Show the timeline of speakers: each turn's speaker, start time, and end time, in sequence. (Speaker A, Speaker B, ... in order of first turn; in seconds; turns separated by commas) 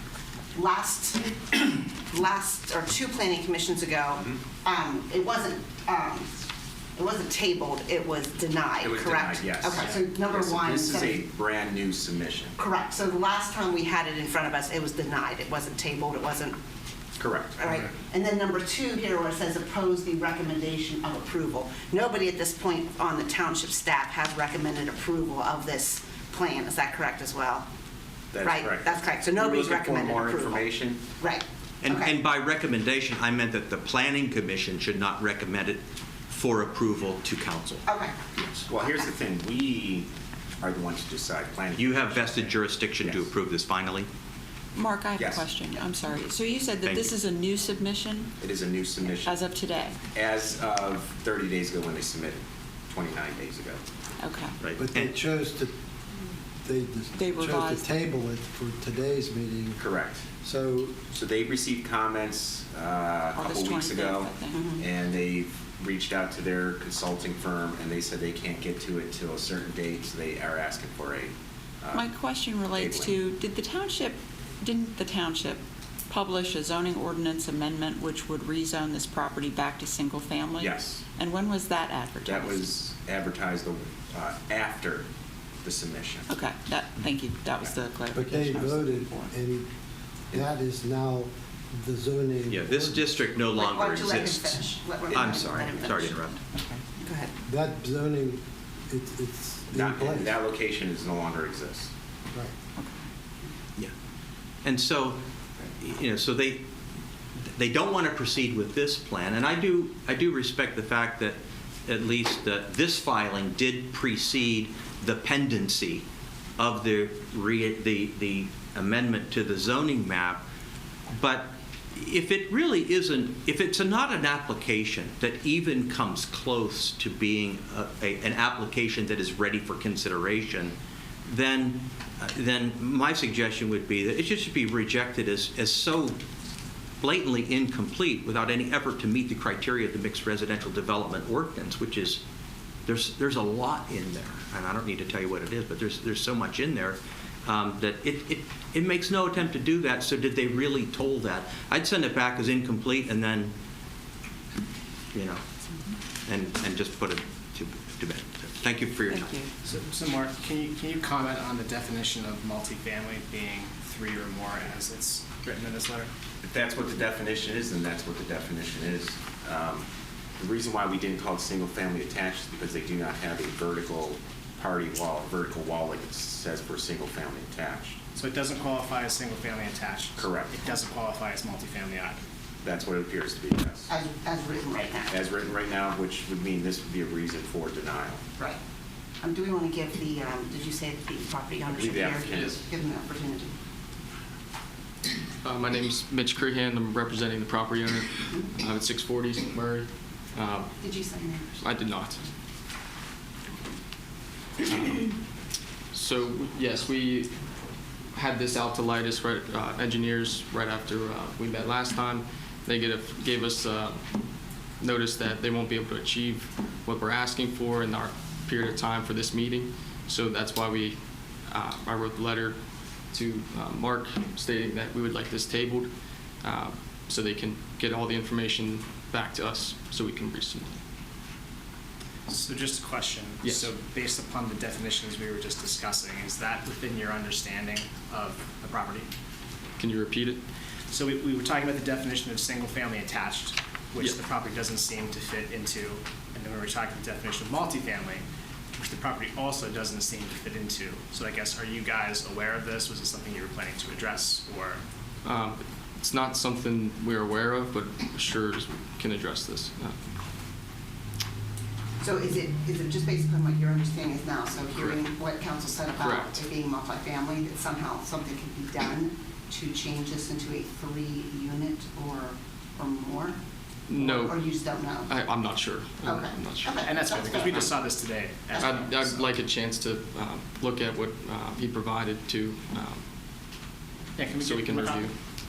Speaker A: 0.5-6.3, Speaker A: 7.0-11.2, Speaker B: 8.8-12.6, Speaker A: 12.6-16.6, Speaker B: 17.2-17.6, Speaker A: 17.6-27.7, Speaker B: 28.3-31.0, Speaker A: 28.4-32.1, Speaker C: 31.8-38.6, Speaker A: 37.9-38.2, Speaker B: 38.7-40.1, Speaker B: 40.6-43.3, Speaker C: 41.8-44.1, Speaker D: 44.8-48.4, Speaker B: 45.2-45.5, Speaker C: 46.8-47.2, Speaker B: 48.4-49.4, Speaker D: 49.1-50.0, Speaker B: 50.1-53.8, Speaker D: 54.2-54.6, Speaker C: 54.6-55.1, Speaker E: 54.8-55.7, Speaker E: 56.6-59.8, Speaker D: 57.1-57.9, Speaker B: 59.8-60.3, Speaker E: 60.4-61.1, Speaker B: 61.1-72.1, Speaker D: 63.4-64.7, Speaker A: 64.5-64.8, Speaker D: 71.9-82.7, Speaker B: 72.7-73.1, Speaker B: 80.6-81.0, Speaker B: 82.2-85.1, Speaker B: 85.6-86.3, Speaker D: 86.3-89.3, Speaker E: 88.1-89.7, Speaker E: 90.3-93.1, Speaker C: 92.5-96.4, Speaker A: 93.5-96.4, Speaker D: 96.5-96.8, Speaker A: 97.0-97.3, Speaker E: 97.5-100.4, Speaker B: 99.7-101.9, Speaker C: 104.6-106.7, Speaker C: 107.4-116.0, Speaker C: 116.6-120.5, Speaker C: 121.1-136.2, Speaker C: 137.0-142.2, Speaker C: 142.9-153.6, Speaker C: 155.1-155.4, Speaker C: 156.2-159.3, Speaker D: 159.2-159.5, Speaker F: 159.6-166.1, Speaker B: 166.4-169.9, Speaker B: 170.4-178.0, Speaker F: 178.2-182.2, Speaker B: 180.2-180.5, Speaker B: 182.6-183.9, Speaker A: 183.9-185.1, Speaker B: 185.1-188.2, Speaker A: 189.2-193.5, Speaker B: 191.7-192.6, Speaker G: 195.4-200.7, Speaker A: 200.8-201.6, Speaker G: 201.6-202.2, Speaker G: 204.7-205.0, Speaker G: 205.9-207.3, Speaker G: 208.1-214.0, Speaker G: 214.8-222.6, Speaker G: 223.1-225.9, Speaker G: 226.4-230.8, Speaker F: 232.3-239.1, Speaker G: 233.4-233.7, Speaker G: 239.8-240.4, Speaker F: 240.9-254.8, Speaker G: 255.2-260.0, Speaker A: 262.0-273.4, Speaker G: 264.8-265.0, Speaker G: 266.0-266.4, Speaker G: 273.9-274.4, Speaker A: 273.9-275.1, Speaker G: 275.1-277.8, Speaker A: 276.0-277.7, Speaker F: 276.8-279.3, Speaker G: 278.6-283.0, Speaker F: 284.2-285.1, Speaker G: 284.4-285.1